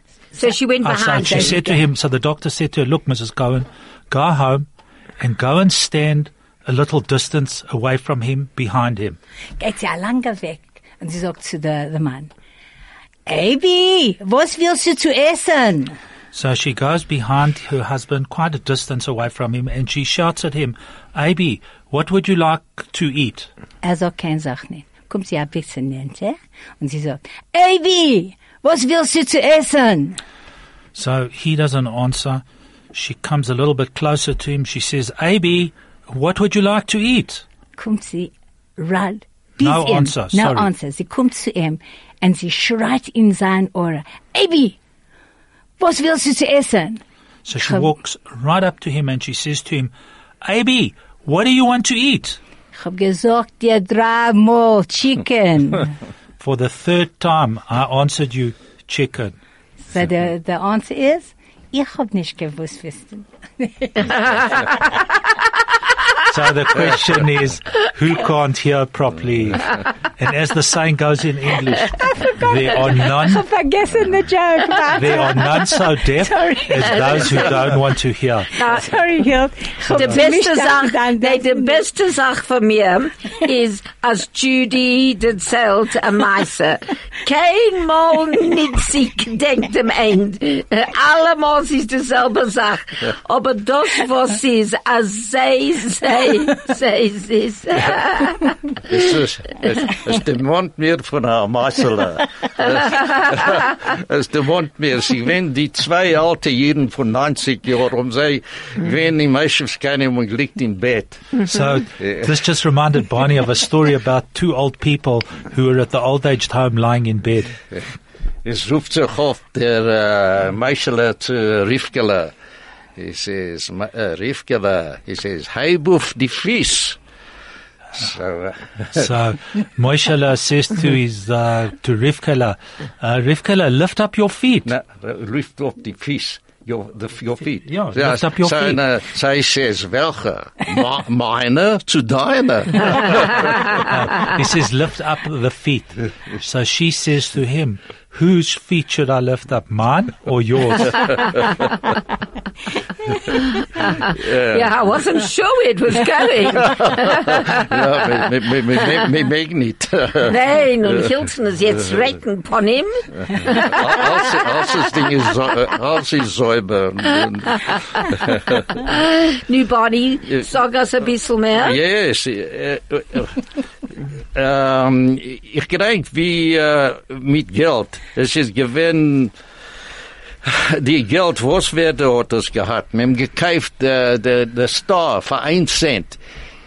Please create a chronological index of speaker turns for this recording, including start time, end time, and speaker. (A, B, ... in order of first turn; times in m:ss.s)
0:00.4-0:01.7 A
0:00.8-0:04.7 B
0:05.2-0:09.2 B
0:09.6-0:12.3 C
0:13.3-0:16.0 C
0:16.3-0:23.5 B
0:23.8-0:30.2 C
0:31.0-0:37.4 B
0:37.8-0:44.8 C
0:39.6-0:40.7 B
0:45.8-0:47.0 C
0:47.5-0:52.4 B
0:47.6-0:47.9 C
0:52.7-0:56.0 C
0:56.4-0:59.4 B
0:59.8-1:04.9 C
1:06.3-1:13.4 B
1:11.7-1:17.5 C
1:14.9-1:18.6 B
1:17.2-1:17.5 A
1:18.6-1:18.8 A
1:18.6-1:21.9 C
1:19.9-1:38.5 A
1:38.9-1:51.4 D
1:51.4-1:57.6 B
1:52.0-1:52.4 D
1:58.4-2:02.3 D
2:03.0-2:07.0 D
2:08.0-2:09.1 D
2:08.9-2:14.7 B
2:14.7-2:23.6 D
2:17.7-2:18.8 B
2:23.7-2:31.4 B
2:33.1-2:37.6 A
2:34.1-2:34.7 D
2:36.6-2:40.4 D
2:40.2-2:44.7 A
2:43.3-2:48.6 D
2:48.7-2:51.8 A
2:51.6-2:53.5 D
2:54.3-2:59.3 D
3:00.4-3:06.2 D